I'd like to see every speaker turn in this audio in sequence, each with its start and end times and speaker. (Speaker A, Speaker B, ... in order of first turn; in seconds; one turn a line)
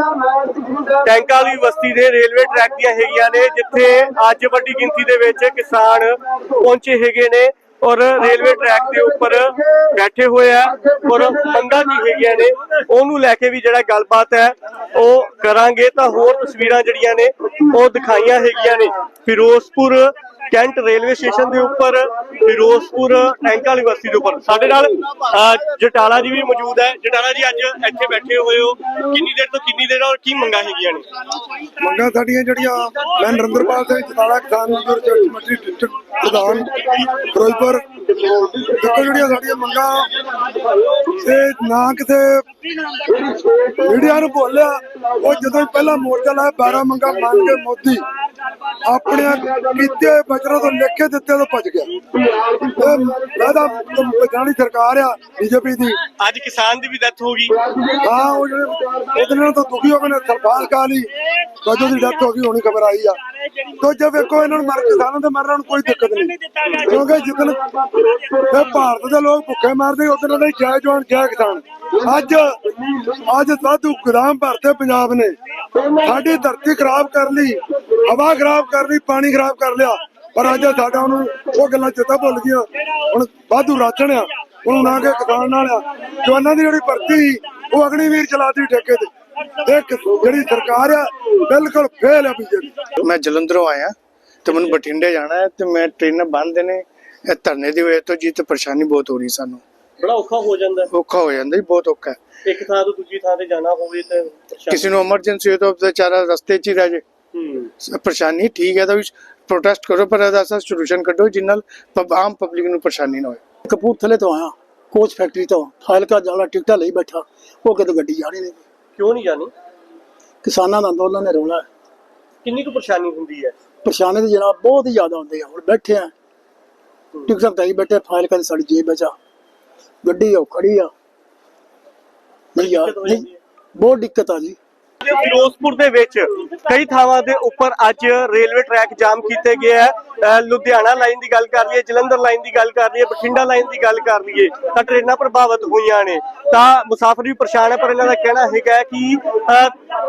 Speaker A: 1.0-31.0
Speaker B: 31.8-40.1
Speaker B: 41.1-42.4
Speaker B: 43.8-48.0
Speaker B: 48.8-52.0
Speaker B: 52.6-56.0
Speaker A: 56.2-57.5
Speaker B: 58.0-61.1
Speaker B: 61.6-63.2
Speaker B: 63.8-67.6
Speaker A: 66.5-66.9
Speaker B: 68.5-72.5
Speaker B: 73.2-75.3
Speaker B: 76.0-89.1
Speaker B: 89.6-92.7
Speaker C: 93.0-99.6
Speaker A: 100.0-100.9
Speaker C: 100.9-102.2
Speaker A: 102.4-104.8
Speaker C: 104.7-107.0
Speaker A: 107.3-107.7
Speaker C: 107.8-113.4
Speaker D: 113.7-118.6
Speaker A: 118.9-119.5
Speaker D: 120.4-121.7
Speaker A: 122.4-123.5
Speaker D: 123.8-126.1
Speaker D: 127.3-129.1
Speaker D: 130.0-130.9
Speaker D: 132.5-133.2
Speaker A: 132.6-133.3
Speaker D: 133.8-134.6
Speaker A: 135.0-149.7